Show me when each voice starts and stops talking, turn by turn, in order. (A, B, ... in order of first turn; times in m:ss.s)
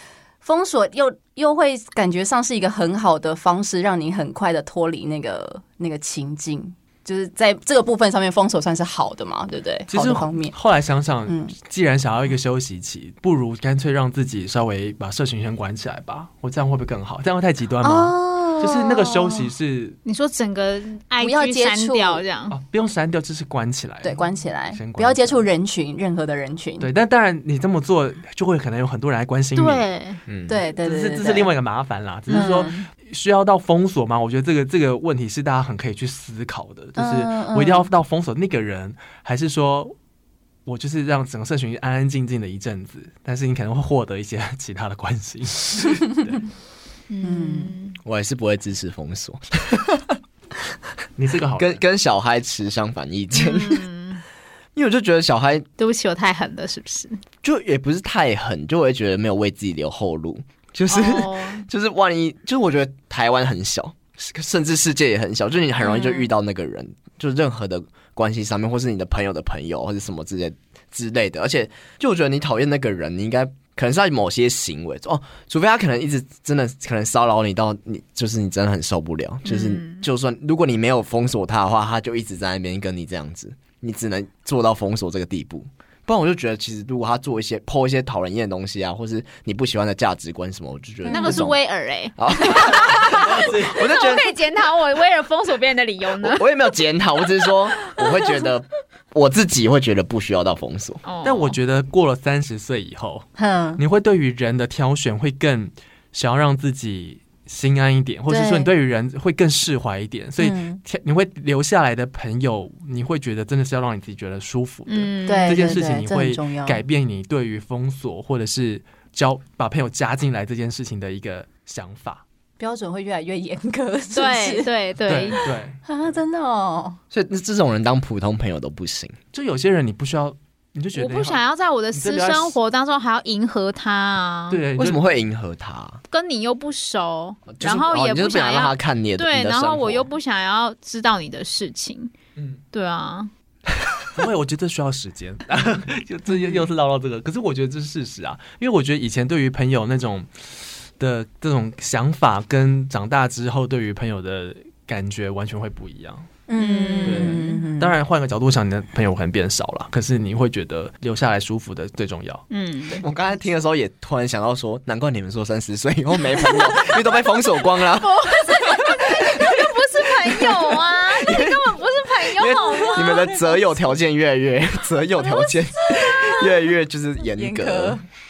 0:00.4-0:10.5 A
0:09.9-0:20.0 B
0:11.3-0:11.5 A
0:17.8-0:19.5 A
0:20.0-0:22.6 C
0:21.2-0:22.2 A
0:22.5-0:25.4 B
0:24.0-0:26.9 A
0:26.8-0:29.8 B
0:29.6-0:30.2 C
0:30.3-0:30.6 D
0:30.5-0:31.5 A
0:30.8-0:39.9 B
0:32.3-0:32.8 A
0:32.3-0:32.8 C
0:37.0-0:37.9 A
0:40.6-0:46.4 B
0:47.1-0:48.0 C
0:47.2-0:47.7 A
0:48.0-0:50.7 D
0:51.2-0:51.8 B
0:51.6-0:53.8 D
0:53.3-0:54.2 C
0:54.7-0:55.6 D
0:55.8-0:57.2 C
0:57.4-1:31.6 D
1:00.9-1:01.6 C
1:05.8-1:06.3 C
1:19.4-1:20.0 C
1:31.0-1:31.4 A
1:31.0-1:36.5 C
1:32.2-1:34.4 D
1:33.2-1:33.7 B
1:36.2-1:41.0 D
1:37.9-1:38.3 C
1:41.0-1:41.6 C
1:41.2-1:43.3 B
1:43.4-1:43.8 A
1:43.8-2:02.2 B
1:48.3-1:48.7 A
1:50.4-1:50.8 A
1:54.9-1:55.7 C
1:55.3-1:56.8 A
2:02.6-2:04.7 A
2:04.1-2:05.4 C
2:05.1-2:05.8 B
2:05.4-2:07.0 A
2:07.1-2:09.2 D
2:09.3-2:11.4 B
2:11.0-2:14.6 C
2:11.9-2:12.6 B
2:14.5-2:15.0 B
2:14.8-2:16.0 D
2:16.1-2:22.1 C
2:17.5-2:20.1 D
2:22.4-2:22.6 B
2:22.7-2:23.3 C
2:24.1-2:36.3 B
2:26.3-2:26.6 A
2:36.5-2:37.9 A
2:36.6-2:37.6 C
2:37.0-2:42.4 B
2:42.5-2:43.0 C
2:42.9-2:43.4 A
2:43.0-2:58.0 D
2:48.0-2:53.4 C
2:53.0-2:53.5 A
2:55.2-2:56.7 A
2:57.2-2:58.0 A